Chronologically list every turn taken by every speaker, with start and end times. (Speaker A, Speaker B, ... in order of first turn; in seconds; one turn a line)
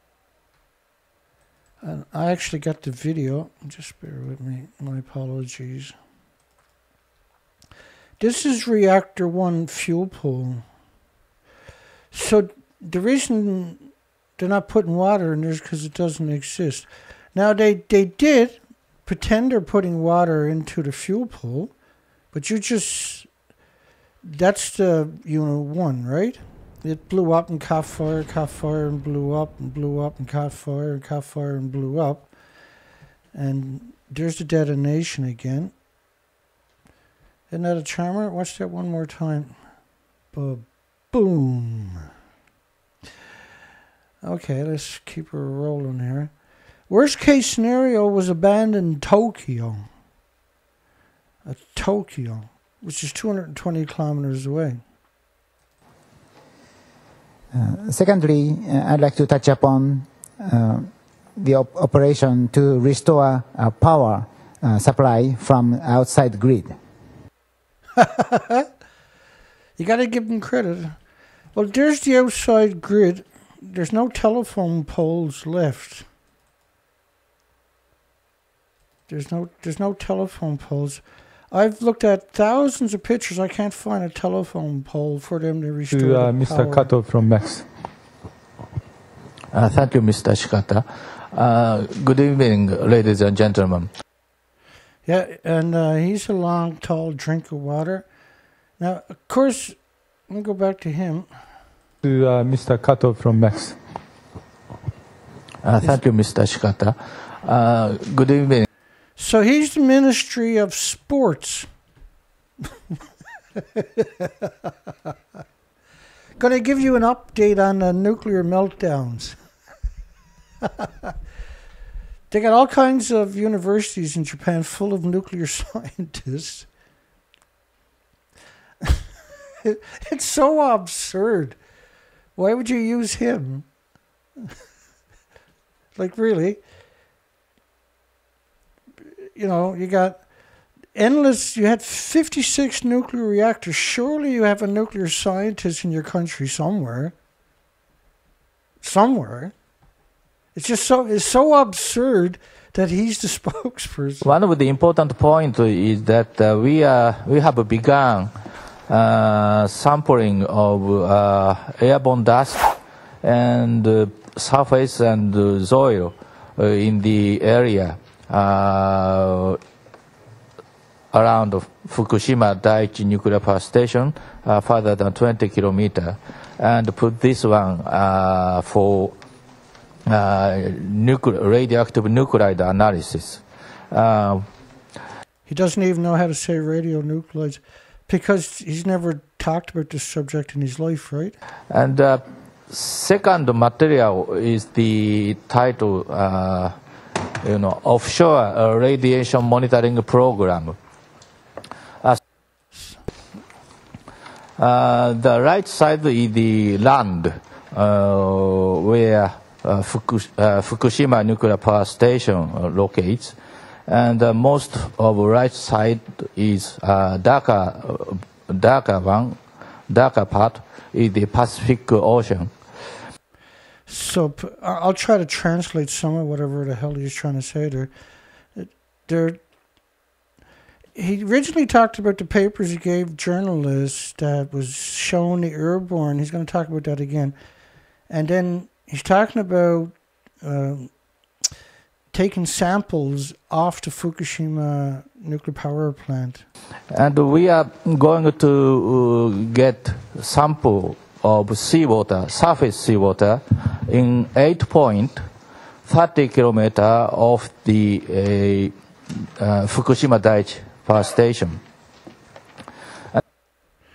Speaker A: 1.8-5.9
Speaker A: 8.2-10.6
Speaker A: 12.1-21.7
Speaker A: 22.3-23.3
Speaker A: 24.2-32.3
Speaker A: 33.3-35.7
Speaker A: 37.5-39.5
Speaker A: 40.3-42.0
Speaker A: 44.2-46.3
Speaker A: 46.9-49.9
Speaker A: 51.4-54.8
Speaker B: 57.5-66.8
Speaker A: 68.0-68.7
Speaker A: 69.8-71.0
Speaker A: 71.5-76.0
Speaker A: 79.1-86.9
Speaker C: 85.9-87.7
Speaker D: 89.5-93.9
Speaker A: 95.0-98.0
Speaker A: 98.8-99.8
Speaker A: 100.3-101.3
Speaker C: 102.0-103.8
Speaker D: 105.6-108.7
Speaker A: 109.2-111.7
Speaker A: 113.5-114.5
Speaker A: 116.4-119.4
Speaker A: 120.6-121.1
Speaker A: 122.3-126.7
Speaker A: 129.6-131.6
Speaker A: 132.3-133.7
Speaker A: 135.9-136.6
Speaker A: 139.3-140.2
Speaker A: 140.9-147.1
Speaker A: 148.8-149.5
Speaker A: 150.5-154.3
Speaker D: 154.2-158.3
Speaker D: 158.9-169.6
Speaker D: 171.1-179.1
Speaker D: 180.1-184.5
Speaker A: 185.5-191.3
Speaker D: 191.7-196.8
Speaker D: 197.4-200.8
Speaker A: 202.7-203.0
Speaker D: 204.6-213.3
Speaker D: 213.9-222.5
Speaker A: 223.9-227.9
Speaker A: 228.6-229.4
Speaker A: 230.9-237.3
Speaker A: 238.1-240.9
Speaker A: 242.1-246.4
Speaker D: 246.9-255.3
Speaker D: 255.8-261.6